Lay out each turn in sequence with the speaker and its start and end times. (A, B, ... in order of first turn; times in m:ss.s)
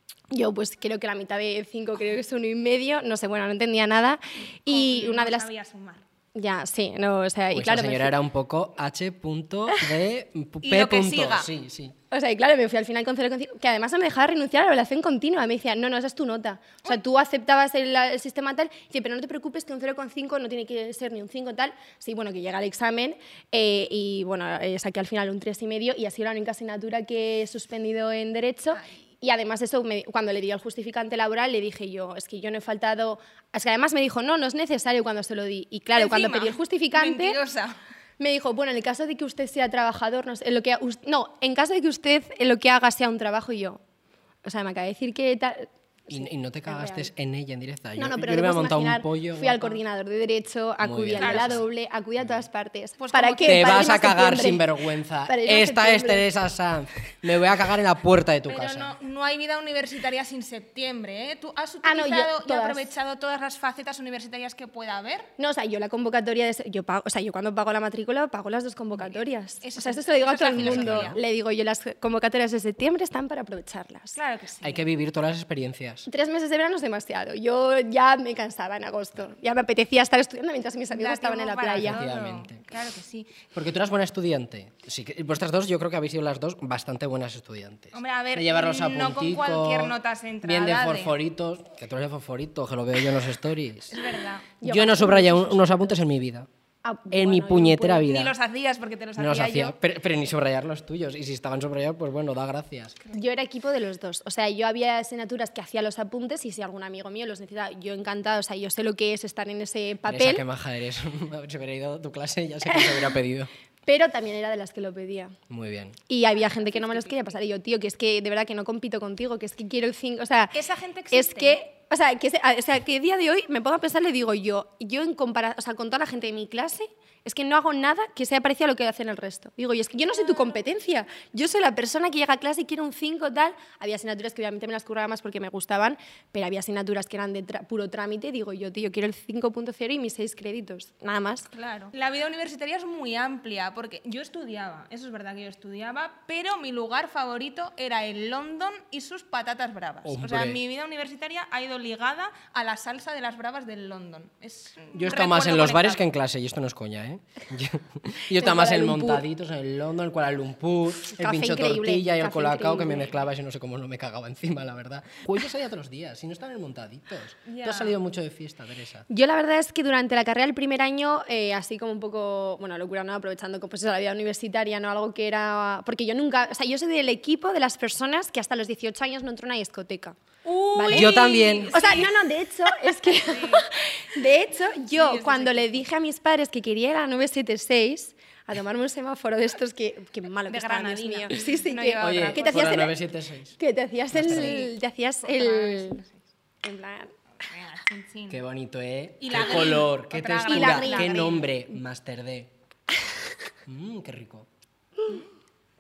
0:00.3-0:05.5 A
0:04.7-0:06.0 B
0:06.4-0:08.1 A
0:07.5-0:11.9 C
0:10.6-0:11.5 B
0:12.1-0:37.4 A
0:28.7-0:29.0 B
0:35.9-0:37.8 B
0:38.2-0:43.8 A
0:44.4-0:47.1 A
0:46.1-0:49.8 C
0:48.0-0:54.7 A
0:50.8-0:51.6 C
0:51.2-0:51.6 B
0:53.0-0:53.9 B
0:53.4-0:58.9 C
0:55.2-0:56.2 A
0:58.5-1:05.3 B
1:01.8-1:02.9 A
1:05.4-1:14.2 A
1:09.0-1:11.2 B
1:10.5-1:11.2 C
1:14.1-1:14.9 B
1:14.6-1:16.1 C
1:16.1-1:22.0 A
1:20.9-1:23.4 B
1:21.8-1:22.6 C
1:23.5-1:33.9 C
1:27.9-1:31.2 B
1:33.9-1:34.5 B
1:34.6-1:35.9 A
1:34.6-1:36.5 C
1:36.8-1:38.1 A
1:37.1-1:38.3 C
1:38.0-1:39.8 B
1:39.2-1:43.0 C
1:43.1-1:50.4 A
1:50.0-1:53.5 C
1:52.7-1:53.1 A
1:53.9-1:55.4 A
1:55.5-1:56.0 C
1:56.1-2:00.6 A
1:56.6-1:57.2 B
2:00.5-2:01.6 B
2:01.1-2:21.5 A
2:10.1-2:10.6 B
2:21.5-2:36.0 B
2:30.0-2:30.6 C
2:34.9-2:49.0 C
2:38.4-2:39.2 A
2:41.1-2:43.2 A
2:47.4-2:48.0 B
2:49.1-3:00.2 A
3:00.4-3:02.1 B
3:00.7-3:12.9 A
3:00.9-3:01.8 C
3:03.2-3:03.7 B
3:04.9-3:05.8 B
3:10.5-3:12.8 B
3:12.0-3:13.6 C
3:13.6-3:16.0 A
3:14.1-3:14.6 C
3:14.2-3:16.2 B
3:16.6-3:17.1 A
3:17.4-3:18.4 B
3:18.3-3:22.5 C
3:19.2-3:21.5 B
3:20.5-3:21.3 A
3:23.6-3:24.5 C